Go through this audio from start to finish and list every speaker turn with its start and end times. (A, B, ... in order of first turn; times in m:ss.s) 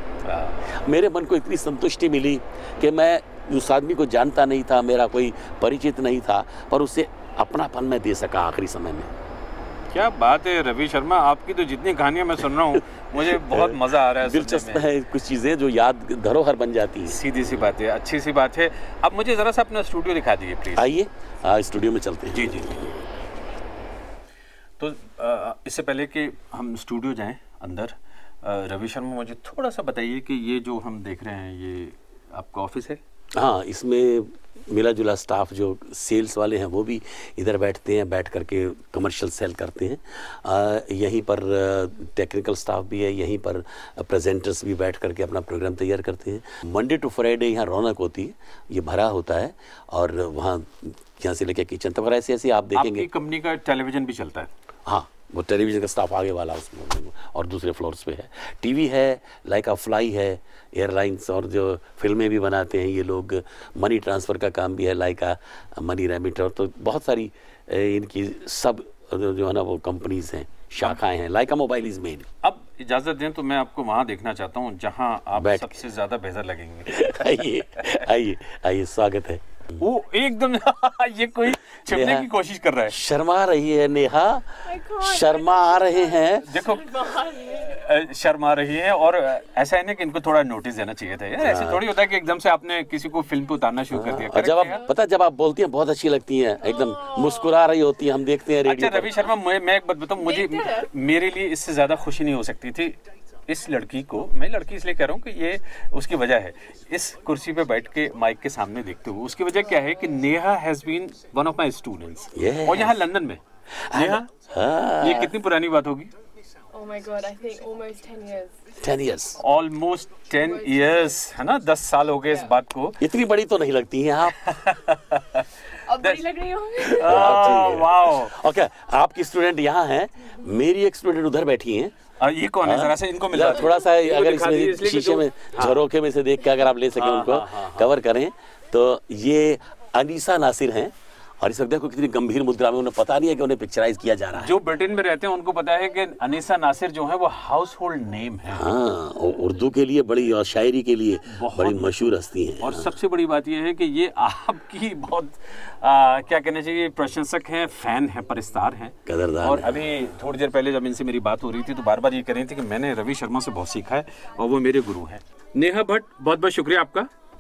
0:00.2-0:00.7 A
0:00.6-0:09.1 B
0:09.9-0:14.9 A
0:13.2-0:17.2 B
0:17.1-0:20.9 A
0:20.8-0:23.0 B
0:22.3-0:22.8 A
0:24.8-0:33.0 A
0:33.4-0:53.1 B
0:52.8-0:54.5 A
0:54.9-1:12.3 B
1:12.4-1:18.0 A
1:15.4-1:15.8 B
1:16.9-1:19.8 B
1:19.8-1:23.0 A
1:21.9-1:22.3 B
1:22.9-1:26.5 B
1:24.7-1:27.8 C
1:26.4-1:34.9 A
1:31.4-1:31.8 B
1:33.9-1:39.2 B
1:36.8-1:37.3 C
1:38.6-1:53.4 A
1:40.2-1:40.9 C
1:52.3-1:53.0 B
1:53.9-1:55.3 B
1:53.9-1:54.3 A
1:55.0-1:56.1 A
1:56.7-1:58.6 C
1:58.8-1:59.4 B
1:59.4-2:03.0 A
2:00.4-2:01.2 C
2:03.0-2:04.4 B
2:04.3-2:05.5 A
2:05.9-2:07.6 C
2:06.0-2:06.2 A
2:06.8-2:11.9 B
2:06.8-2:08.4 A
2:12.2-2:15.8 A
2:12.6-2:24.6 B
2:17.0-2:17.9 A
2:24.4-2:28.7 A
2:28.5-2:32.9 B
2:31.3-2:32.1 A
2:32.6-2:47.1 A
2:39.1-2:39.8 B